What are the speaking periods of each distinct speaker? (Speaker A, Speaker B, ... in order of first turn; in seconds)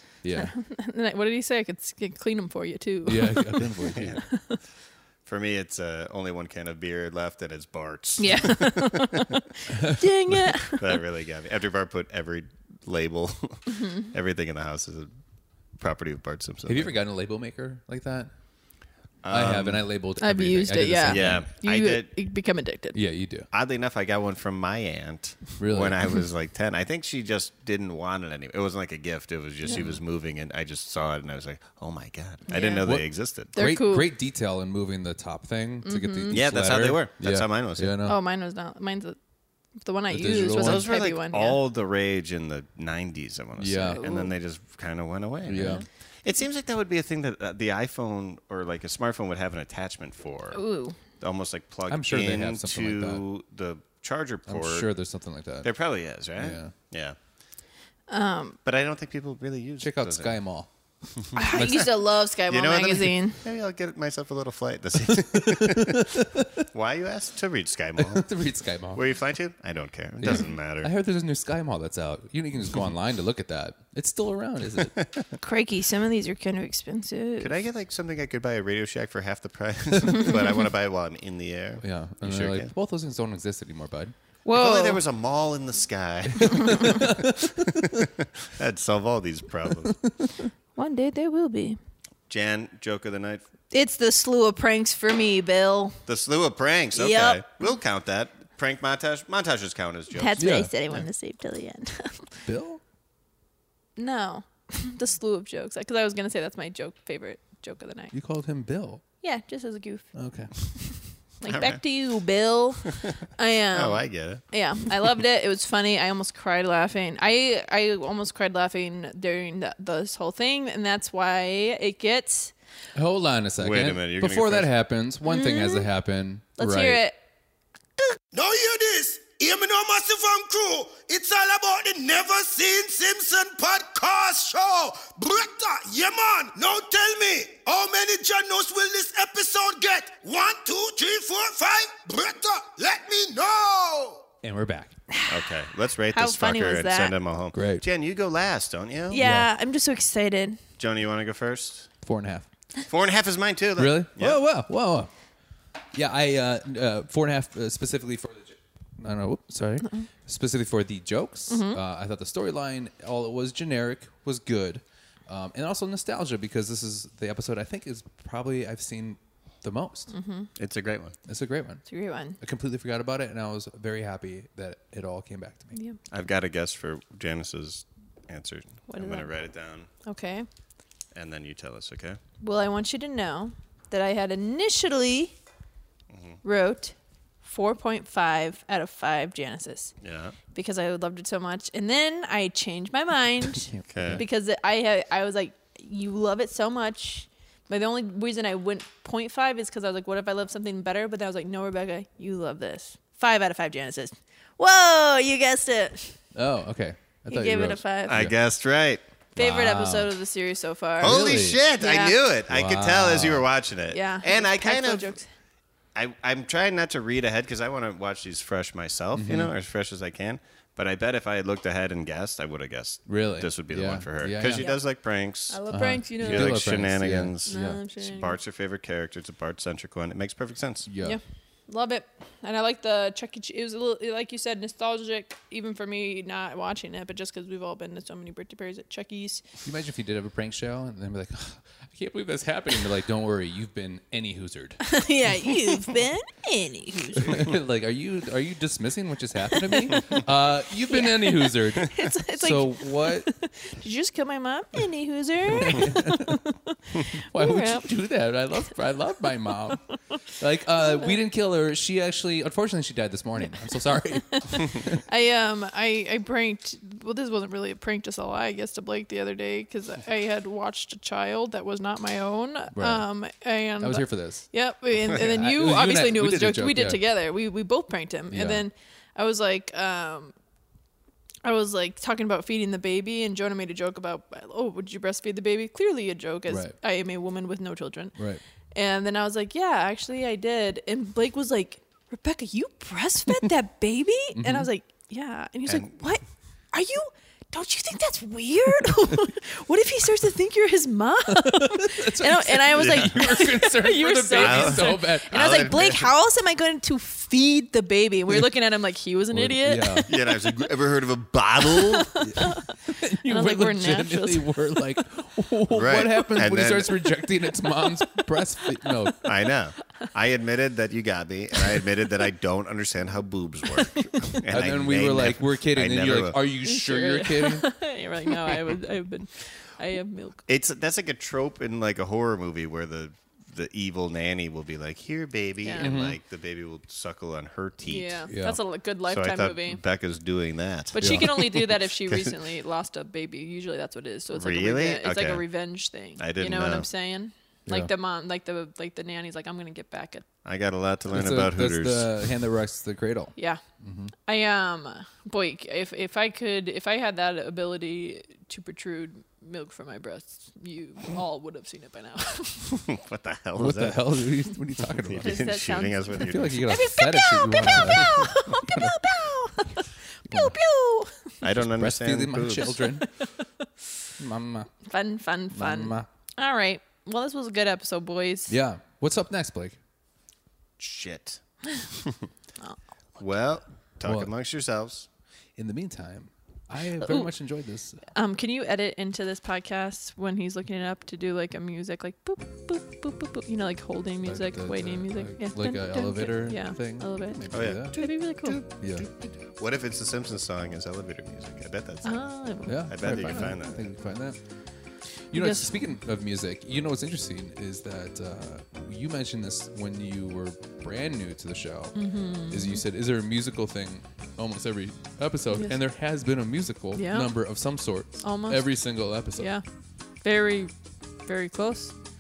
Speaker A: 0.2-0.5, 3.0-4.2, 16.7-18.3, 19.3-21.5, 22.9-23.5, 25.6-26.0, 32.8-38.2, 40.1-40.9, 43.6-44.0, 45.5-45.9, 51.9-53.2, 54.5-55.7, 56.4-56.7, 59.8-60.7, 61.5-61.9, 65.1-66.6, 68.0-69.0, 70.2-75.0, 81.8-84.2, 86.5-88.0, 100.4-100.7, 102.5-102.8, 108.1-109.0, 110.2-110.5, 123.0-127.0, 144.4-145.0, 147.5-147.8, 149.1-149.5, 152.0-152.5, 153.8-155.1, 155.9-170.1, 171.3-171.8, 172.4-175.7, 193.6-194.2, 206.3-208.4, 209.3-210.1, 211.0-211.6, 212.5-213.5, 219.2-219.5, 223.1-224.7, 225.7-227.8, 230.9-231.2, 239.7-244.9, 247.2-253.3, 255.5-256.4, 257.3-259.8, 260.4-265.0, 272.8-273.1, 273.8-274.4, 275.1-277.0, 278.3-278.6, 286.5-286.8, 288.2-288.4, 294.3-294.7, 301.3-305.8, 309.3-310.1, 312.2-319.3, 324.5-327.7, 335.8-336.2, 338.3-338.6, 341.0-341.3, 351.1-354.1, 363.6-365.6, 366.2-369.0, 370.3-370.6, 371.5-373.1, 374.2-374.8, 375.5-376.1, 378.5-379.8, 384.0-384.3, 385.6-388.0, 394.2-397.9, 398.8-399.1, 402.7-404.4, 405.3-419.6
Speaker B: 0.3-3.6, 4.3-4.6, 8.2-11.0, 13.7-14.1, 20.2-23.0, 32.5-32.9, 33.5-34.1, 35.9-36.4, 38.0-39.2, 39.8-41.6, 43.9-44.3, 50.5-51.0, 58.1-58.6, 61.4-63.4, 75.4-77.5, 84.5-85.0, 90.8-91.8, 93.7-96.0, 97.0-97.7, 100.2-102.3, 104.0-108.1, 109.2-110.1, 111.4-122.5, 125.3-125.9, 126.6-127.2, 146.1-147.1, 149.1-150.6, 161.5-161.8, 170.1-170.5, 171.9-172.4, 178.9-179.3, 180.1-180.5, 182.4-185.3, 186.4-189.9, 190.5-206.2, 207.3-208.2, 209.4-212.2, 213.9-215.3, 224.4-224.8, 225.5-226.6, 227.5-228.4, 231.0-239.4, 244.8-247.4, 249.5-250.1, 250.9-257.9, 260.8-261.1, 263.4-280.3, 281.4-288.2, 288.7-310.2, 312.1-312.7, 313.3-314.5, 323.8-324.1, 326.6-330.4, 335.6-335.9, 337.9-339.8, 340.9-350.3, 354.3-362.7, 365.2-371.4, 373.0-373.4, 374.9-378.6, 387.0-387.3, 388.1-398.6, 402.1-403.6, 405.3-405.7, 411.9-412.8, 415.5-415.8, 416.9-417.4, 418.2-418.6, 419.4-419.6, 420.2-422.0
Speaker C: 3.9-4.2, 5.3-9.2, 10.7-15.1, 15.8-17.0, 19.2-19.9, 21.1-22.1, 23.5-33.5, 36.3-37.9, 40.6-50.6, 51.2-54.9, 55.6-57.2, 58.6-60.4, 61.2-61.7, 62.5-66.1, 66.7-68.3, 68.9-70.9, 77.4-82.7, 84.5-90.0, 92.3-93.4, 96.1-101.0, 111.5-111.8, 112.9-113.1, 113.7-114.4, 123.6-124.7, 145.3-149.2, 150.8-151.9, 152.9-154.4, 170.6-171.2, 176.1-179.9, 181.1-182.2, 190.0-190.3, 193.9-194.2, 208.1-209.0, 211.0-215.1, 215.9-230.9, 295.7-296.1, 302.8-303.2, 304.4-306.1, 310.1-312.2, 315.7-317.0, 319.2-326.4, 330.5-338.3, 339.1-342.4, 344.3-345.4, 346.2-346.9, 350.4-352.3, 362.8-364.3, 365.1-366.7, 371.4-372.8, 380.8-381.4, 383.2-385.1, 397.5-403.9
Speaker D: 128.3-144.3